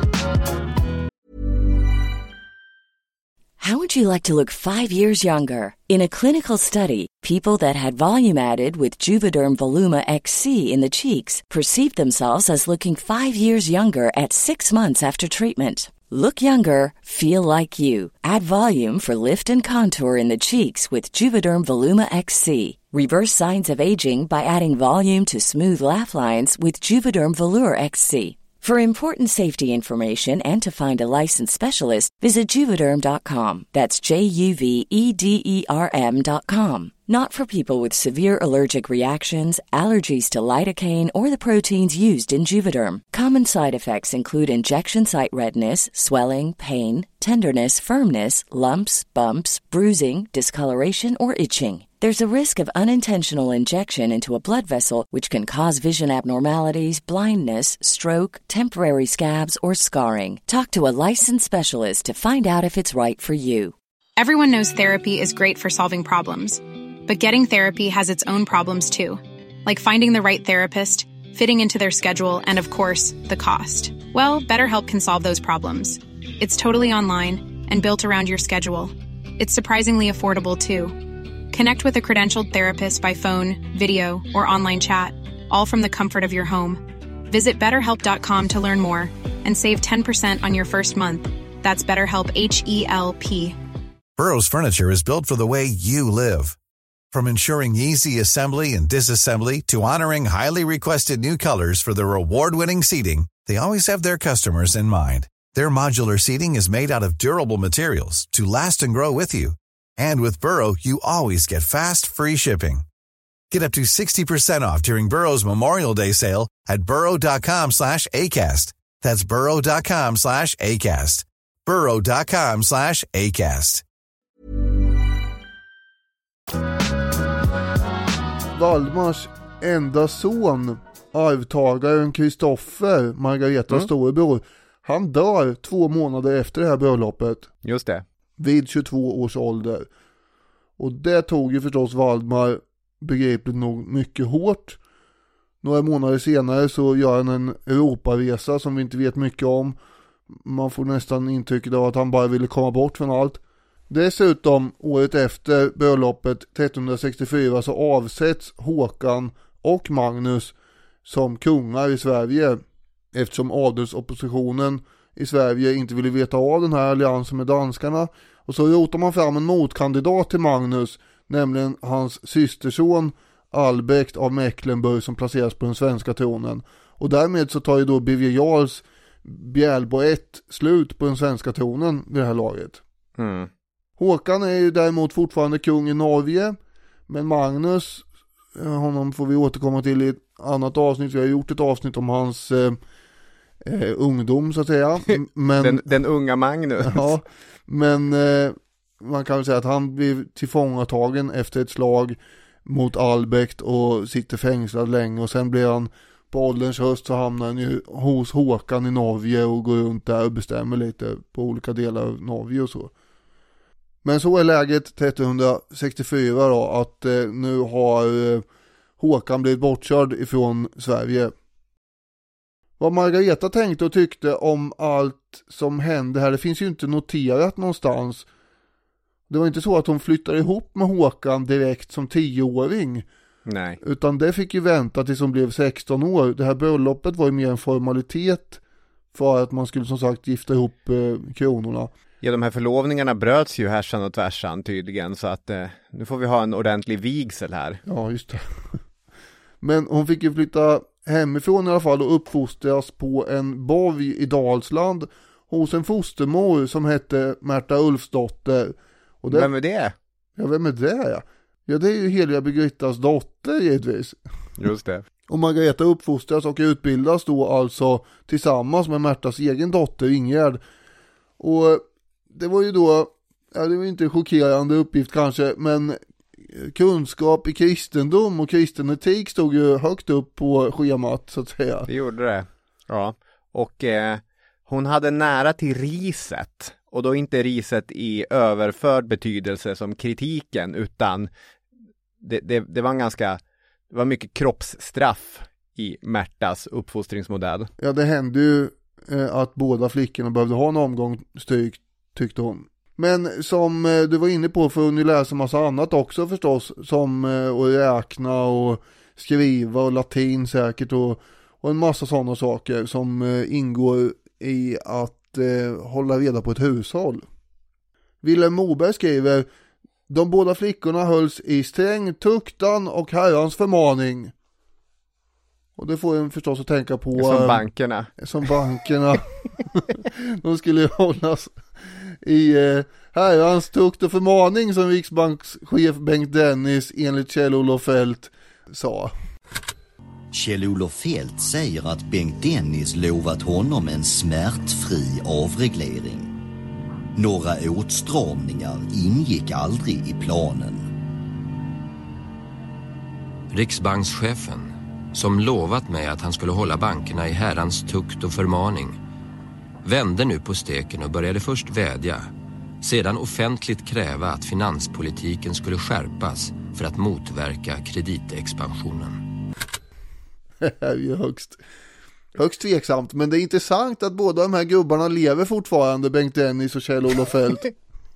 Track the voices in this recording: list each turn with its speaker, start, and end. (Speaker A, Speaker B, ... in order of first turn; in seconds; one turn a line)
Speaker A: 3.6-63.7
Speaker B: 64.2-93.5
Speaker C: 94.2-96.5
Speaker C: 97.1-112.8
Speaker C: 113.5-123.8
Speaker D: 128.5-137.5
Speaker E: 137.6-138.0
Speaker D: 138.4-139.9
Speaker D: 140.8-144.8
Speaker D: 145.6-149.8
Speaker D: 150.3-160.5
Speaker D: 161.0-162.6
Speaker D: 163.1-182.8
Speaker E: 183.2-183.5
Speaker D: 184.0-186.6
Speaker D: 187.1-188.0
Speaker D: 188.6-192.8
Speaker D: 193.7-195.8
Speaker E: 195.1-197.1
Speaker D: 196.8-212.9
Speaker D: 214.0-218.4
Speaker D: 219.0-221.3
Speaker D: 222.8-228.2
Speaker D: 229.3-233.1
Speaker E: 233.4-233.8
Speaker D: 233.8-238.6
Speaker D: 239.1-241.9
Speaker E: 242.2-247.8
Speaker D: 247.8-248.8
Speaker D: 249.6-259.5
Speaker E: 259.3-259.9
Speaker D: 260.4-264.2
Speaker E: 264.6-265.1
Speaker D: 265.3-270.6
Speaker D: 271.4-276.0
Speaker D: 276.5-281.9
Speaker E: 281.9-291.3
Speaker E: 292.2-293.4
Speaker E: 293.9-297.7
Speaker D: 297.8-317.2
Speaker D: 318.2-319.5
Speaker D: 320.1-324.3
Speaker D: 325.8-327.6
Speaker E: 327.1-328.1
Speaker D: 328.2-339.1
Speaker F: 340.3-346.3
Speaker F: 347.1-350.9
Speaker G: 353.5-359.0
Speaker G: 359.8-362.3
Speaker G: 362.8-369.2
Speaker D: 370.6-371.6
Speaker D: 372.4-377.7